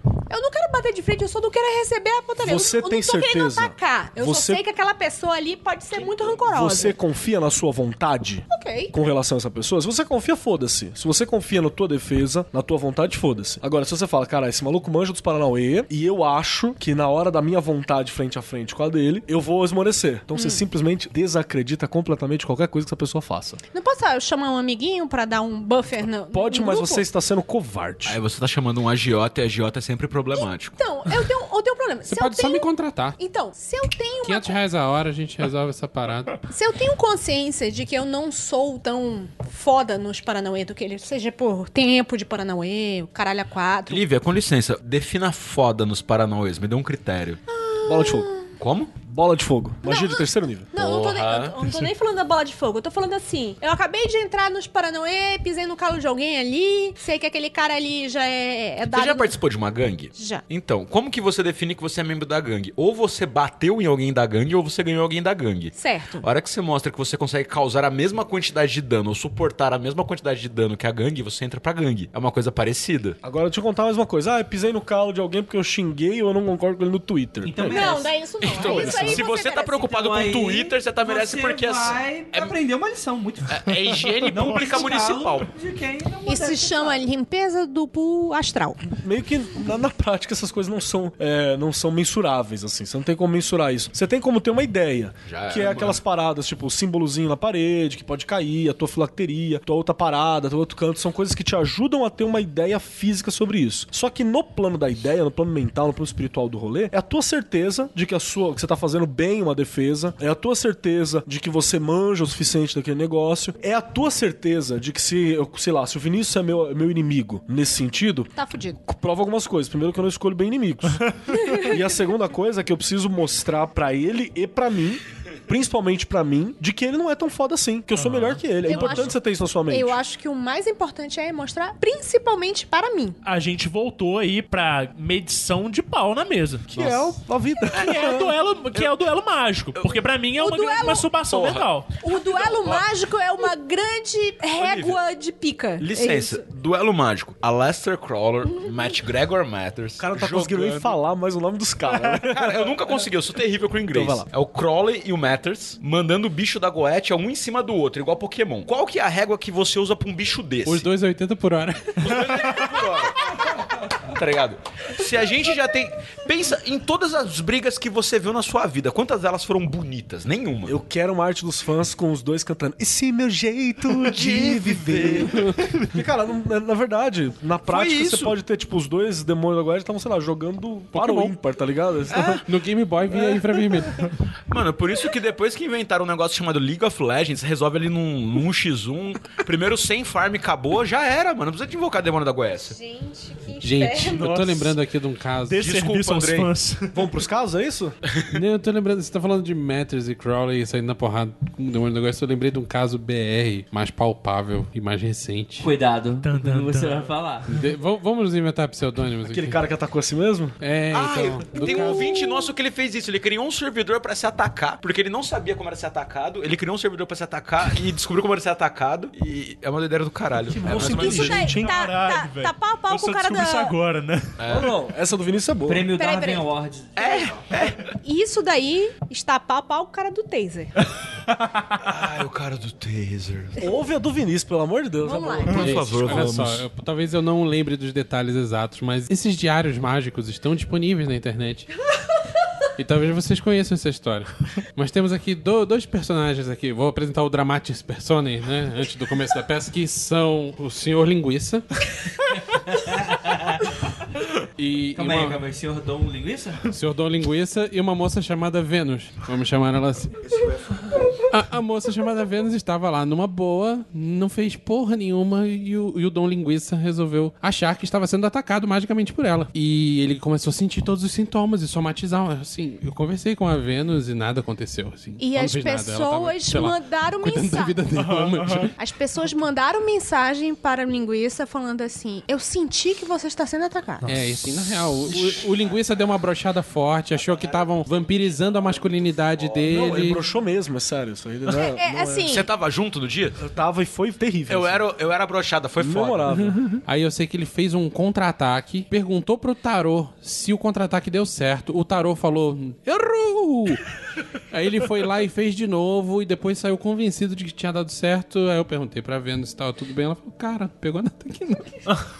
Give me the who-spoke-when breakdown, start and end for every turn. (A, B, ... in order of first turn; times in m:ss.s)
0:00.3-0:07.0 A
0:02.4-0:04.6 B
0:06.0-0:06.3 C
0:06.4-0:23.6 B
0:08.5-0:08.9 A
0:20.3-0:20.6 A
0:23.7-0:27.0 A
0:26.3-0:28.2 B
0:28.0-0:30.8 C
0:30.3-0:34.6 A
0:32.0-0:33.2 D
0:34.2-0:36.4 D
0:36.5-0:44.0 A
0:43.9-0:47.4 C
0:47.5-0:48.5 A
0:47.8-0:48.3 B
0:48.6-0:48.9 C
0:49.0-0:50.7 B
0:49.8-0:59.4 A
0:50.7-0:51.6 C
0:58.8-1:13.2 C
1:00.1-1:00.4 A
1:05.7-1:06.2 A
1:13.2-1:17.9 B
1:17.4-1:23.7 E
1:17.6-1:19.9 A
1:17.7-1:22.5 C
1:23.5-1:25.5 C
1:24.2-1:27.0 E
1:26.2-1:28.9 A
1:28.8-1:58.3 B
1:35.3-1:36.0 C
1:58.3-1:58.8 A
1:58.8-2:10.0 B
2:01.3-2:01.8 A
2:07.9-2:09.1 F
2:08.6-2:13.2 A
2:13.2-2:17.2 F
2:16.7-2:18.3 B
2:17.7-2:21.9 F
2:19.8-2:20.0 C
2:20.4-2:21.1 A
2:21.3-2:22.8 C
2:22.0-2:26.4 A
2:24.5-2:25.0 C
2:25.8-2:30.9 C
2:28.4-2:28.9 A
2:30.0-2:33.0 B
2:32.1-2:40.9 C
2:33.9-2:34.3 B
2:40.6-2:42.7 D
2:42.0-2:50.8 C
2:50.6-3:02.4 B
2:54.0-2:55.8 C
2:57.6-2:58.3 C
3:00.9-3:01.3 D
3:02.1-3:02.4 C
3:02.4-3:03.9 D
3:03.1-3:03.9 B
3:04.5-3:12.8 C
3:12.6-3:14.3 A
3:13.6-3:15.7 D
3:14.2-3:14.6 C
3:14.2-3:14.7 F
3:15.5-3:16.9 F
3:15.6-3:16.5 C
3:16.9-3:18.0 B
3:18.3-3:25.7 D
3:25.6-3:27.5 E
3:26.2-3:27.1 F
3:27.5-3:29.6 D
3:29.2-3:30.6 B
3:30.6-3:32.1 D
3:30.9-3:41.5 C
3:31.7-3:32.4 A
3:40.4-3:41.8 B
3:40.7-3:43.7 A
3:40.8-3:44.4 F
3:44.4-3:44.7 C
3:44.5-3:45.9 B
3:45.6-3:47.4 E
3:45.9-3:46.5 A
3:47.0-3:47.9 C
3:47.0-3:47.4 A
3:48.0-3:50.7 A
3:51.3-3:51.8 F
3:51.8-3:53.6 C
3:53.6-3:56.2 B
3:55.0-3:56.1 A
3:55.5-4:01.7 D
3:55.5-3:56.6 C
4:02.8-4:11.7 D
4:12.6-4:13.5 E
4:14.6-4:15.4 D
4:14.9-4:16.6 E
4:16.7-4:20.2 D
4:20.2-4:21.1 C
4:21.3-4:38.7 D
4:35.2-4:37.8 A
4:37.9-4:38.7 F
4:38.8-4:44.1 A
4:44.0-4:50.2 D
4:44.7-4:46.3 C
4:47.1-4:50.2 C
4:49.7-4:52.3 B
4:51.5-4:52.5 A
4:52.3-4:53.4 C
4:53.4-4:54.9 B
4:54.5-4:56.3 C
4:55.8-4:56.8 B
4:56.3-5:03.8 D
5:04.5-5:11.7 D